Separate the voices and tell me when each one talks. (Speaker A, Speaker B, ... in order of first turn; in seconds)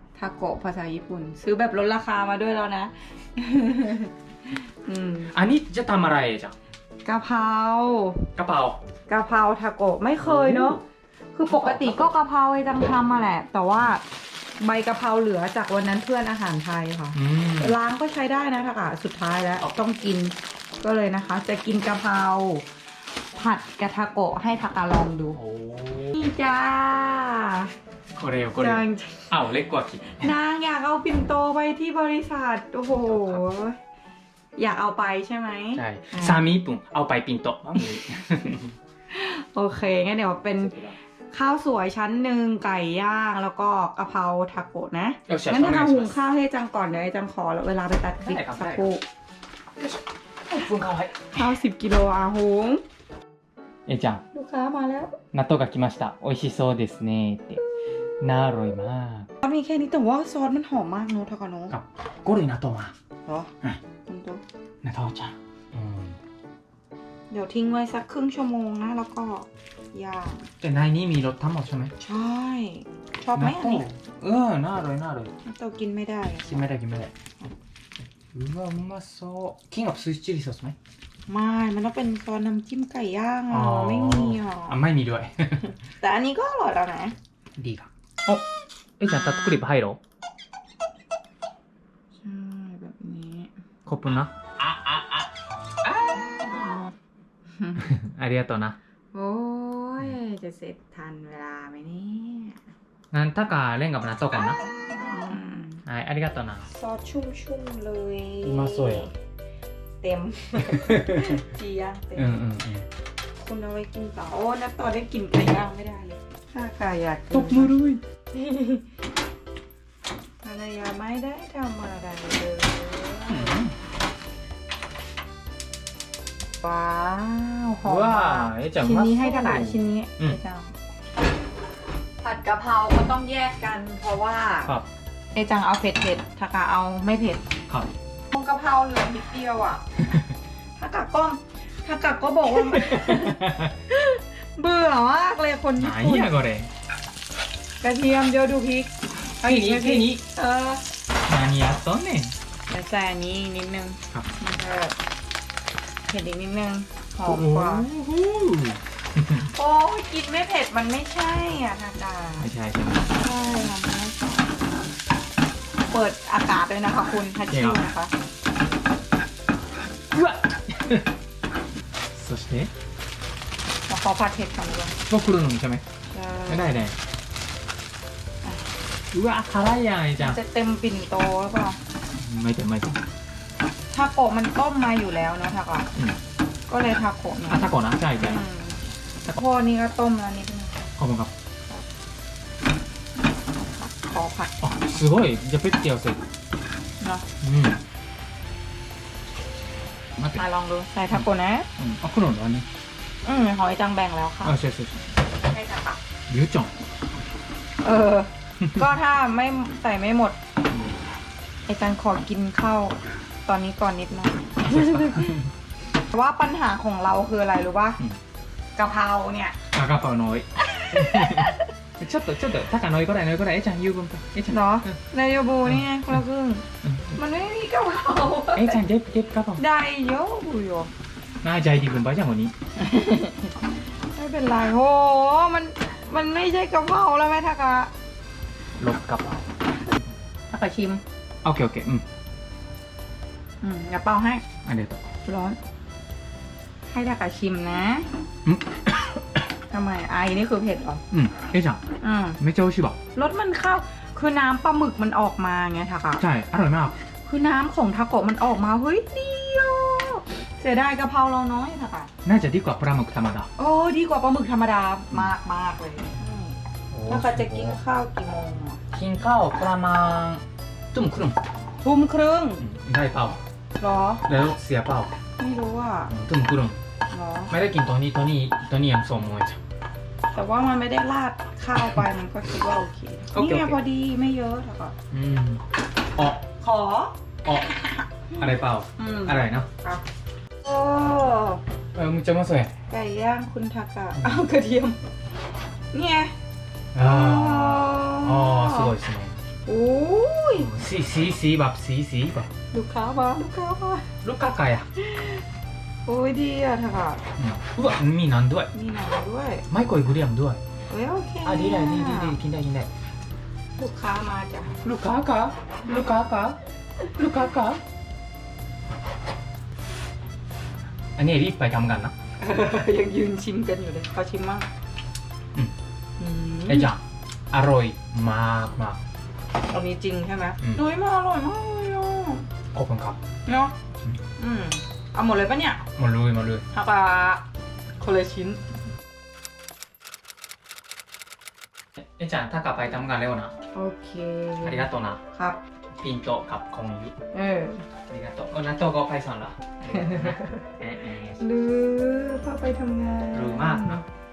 Speaker A: 0.2-5.3, 7.0-8.3, 9.1-10.8, 11.3-14.0, 14.6-22.7, 23.3-25.4, 26.1-27.7, 28.6-29.3, 30.1-33.8, 34.6-36.5, 39.1-40.8, 41.3-49.0, 51.3-52.8, 54.3-55.2, 59.4-61.8, 63.3-63.5, 64.1-64.4, 67.3-70.4, 72.0-73.8, 75.4-76.7, 81.3-84.8, 86.0-87.2, 89.1-89.5, 92.2-93.5, 97.6-97.9, 99.1-102.6, 105.0-105.8, 106.7-109.1, 110.0-112.4, 113.4-117.7, 118.3-118.8, 120.4-123.6, 126.6-130.7, 132.2-134.7, 135.3-137.4, 138.3-139.8, 140.8-146.3, 147.8-150.8, 152.7-155.0, 156.1-157.9, 159.4-162.5, 163.1-164.5, 165.9-168.1, 173.9-175.0, 176.1-176.7, 180.2-181.8, 183.9-185.9, 186.7-190.8, 193.6-195.0, 200.3-201.7, 203.2-204.6, 205.5-206.0, 207.8-210.4, 211.7-215.4, 216.1-218.0, 218.8-219.6, 220.6-221.7, 224.5-228.8, 229.6-230.9, 232.8-233.6, 234.1-237.9, 240.5-241.0, 243.6-244.4, 245.2-245.6, 246.9-248.1, 249.7-251.0, 252.0-252.4, 253.1-256.2, 257.3-262.1, 263.6-266.6, 267.1-268.8, 271.8-272.6, 273.8-274.3, 275.4-276.1, 277.1-277.5, 280.3-284.9, 286.6-290.0, 290.6-291.6, 292.9-295.0, 295.9-296.3, 297.0-298.9, 299.7-300.7, 302.7-304.1, 305.0-305.4, 306.1-307.2, 308.7-309.7, 310.9-312.4, 313.8-314.7, 322.4-324.7, 326.2-326.9, 329.7-332.5, 333.5-333.7, 334.4-335.9, 336.7-337.4, 338.0-338.6, 343.7-345.6, 347.3-347.9, 349.9-350.7, 351.4-354.0
Speaker B: 5.3-6.5, 8.4-8.8, 10.2-10.8, 11.5-12.0, 17.1-17.8, 25.3-26.3, 28.2-30.4, 33.0-33.4, 35.8-38.7, 40.6-41.0, 45.3-46.1, 48.2-48.9, 49.8-51.5, 53.9-54.2, 55.3-57.6, 58.2-59.3, 61.7-62.9, 64.8-66.2, 70.6-71.9, 73.3-75.3, 76.5-77.1, 78.3-80.8, 83.5-85.7, 87.6-88.4, 89.0-90.0, 93.9-95.3, 97.8-98.8, 103.1-104.6, 105.8-106.7, 108.4-109.1, 110.6-111.4, 112.2-112.9, 117.3-118.0, 123.3-123.7, 127.8-130.4, 137.7-137.9, 140.0-140.3, 142.6-143.8, 145.8-146.7, 149.4-150.2, 151.3-152.3, 157.2-159.5, 162.4-163.1, 167.5-167.9, 170.1-171.1, 172.1-172.7, 175.1-175.8, 176.5-176.9, 179.1-180.4, 182.1-183.0, 187.5-188.4, 191.0-191.3, 194.6-196.2, 197.4-197.8, 200.2-200.4, 201.8-202.7, 204.4-205.0, 206.3-206.7, 210.7-210.9, 214.6-215.5, 219.7-224.9, 225.7-226.2, 226.8-227.1, 228.6-229.6, 231.4-232.5, 238.8-239.4, 241.4-242.0, 244.7-245.0, 248.4-249.2, 251.1-251.8, 252.4-253.0, 256.2-256.9, 262.2-263.5, 266.9-267.8, 268.9-271.4, 272.6-273.4, 274.3-275.1, 276.1-276.8, 277.5-279.6, 283.3-283.8, 285.1-285.6, 286.2-286.4, 287.4-287.7, 288.3-289.7, 291.9-292.7, 294.2-294.4, 296.9-299.4, 300.6-302.5, 304.2-304.9, 307.4-308.7, 309.7-310.6, 311.4-312.9, 314.8-316.6, 317.1-317.8, 321.2-322.1, 326.7-329.0, 332.7-333.2, 336.0-336.6, 342.0-343.5, 344.6-345.2, 346.0-347.1, 348.1-351.4, 353.3-354.0